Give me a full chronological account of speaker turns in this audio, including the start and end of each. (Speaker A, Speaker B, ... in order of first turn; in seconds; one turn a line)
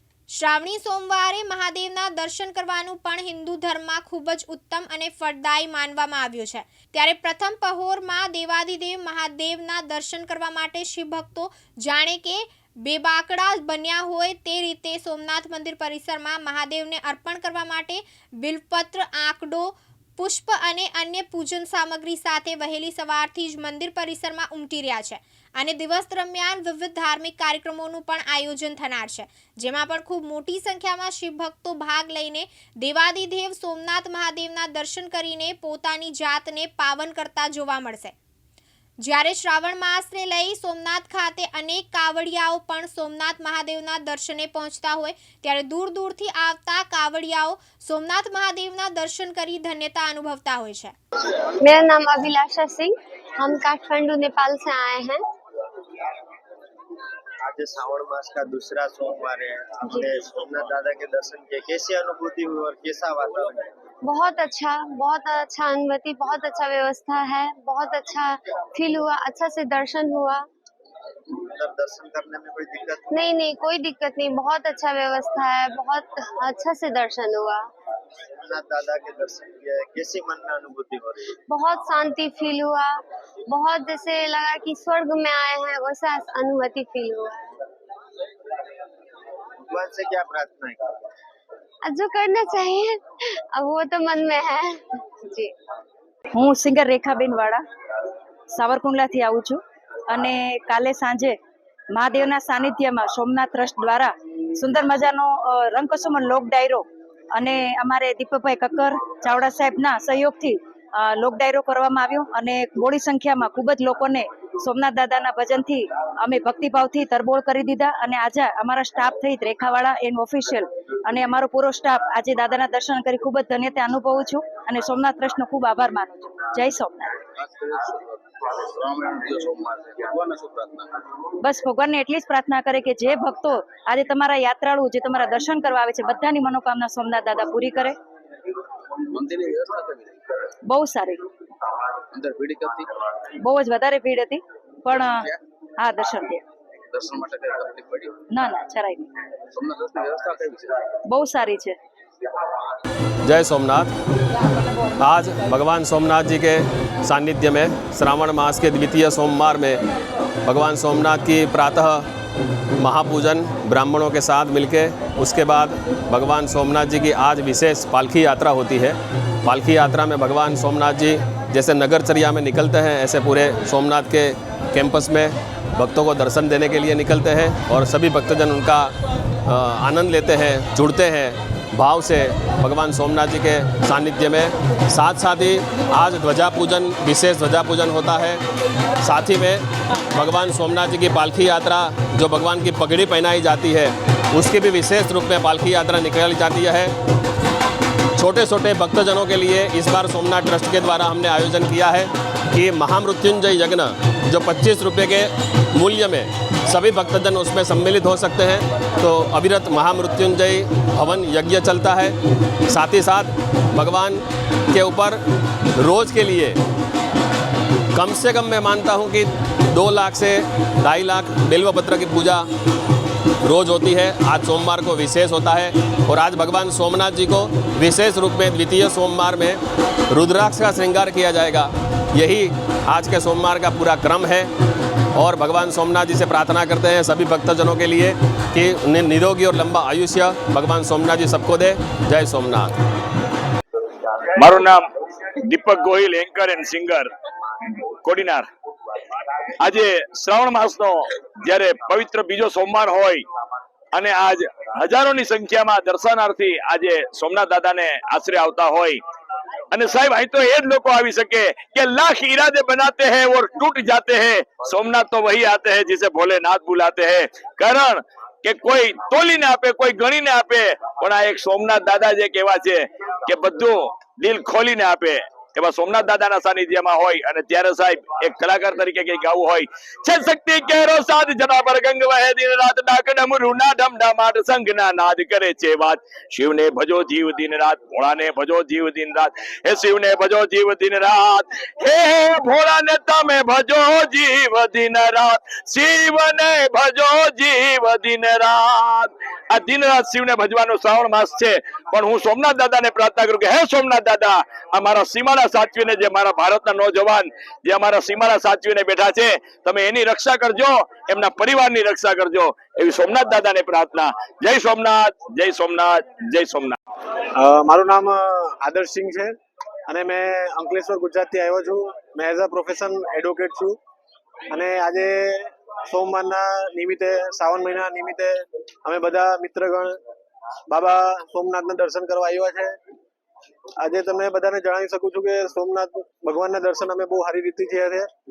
Speaker A: 0.3-38.1
Speaker A: 39.0-50.9
Speaker B: 51.6-55.2
Speaker C: 57.5-63.7
Speaker B: 59.8-60.2
Speaker B: 64.0-70.5
Speaker C: 71.5-73.0
Speaker B: 73.1-77.7
Speaker C: 78.5-81.3
Speaker B: 81.5-87.6
Speaker C: 89.7-90.8
Speaker B: 91.8-93.0
Speaker B: 93.5-95.5
Speaker D: 96.3-97.6
Speaker D: 98.5-101.4
Speaker D: 101.9-127.2
Speaker E: 127.3-130.9
Speaker D: 131.4-138.0
Speaker E: 138.9-140.2
Speaker D: 140.7-141.2
Speaker E: 142.1-142.9
Speaker D: 143.4-146.4
Speaker E: 144.9-145.3
Speaker E: 146.9-148.2
Speaker D: 148.3-149.1
Speaker E: 149.5-150.9
Speaker D: 151.1-151.8
Speaker F: 153.2-153.9
Speaker F: 155.0-159.8
Speaker F: 160.4-162.1
Speaker F: 162.8-178.9
Speaker F: 179.5-188.4
Speaker F: 189.0-196.9
Speaker F: 198.2-215.2
Speaker F: 215.8-216.6
Speaker F: 217.9-222.5
Speaker F: 223.4-234.5
Speaker F: 235.1-242.8
Speaker G: 244.3-244.8
Speaker G: 245.4-247.1
Speaker G: 248.0-248.4
Speaker G: 249.6-253.2
Speaker G: 253.9-259.0
Speaker G: 259.7-316.8
Speaker H: 317.4-319.3
Speaker H: 319.9-323.8
Speaker H: 324.5-330.0
Speaker H: 330.7-332.8
Speaker H: 333.8-338.1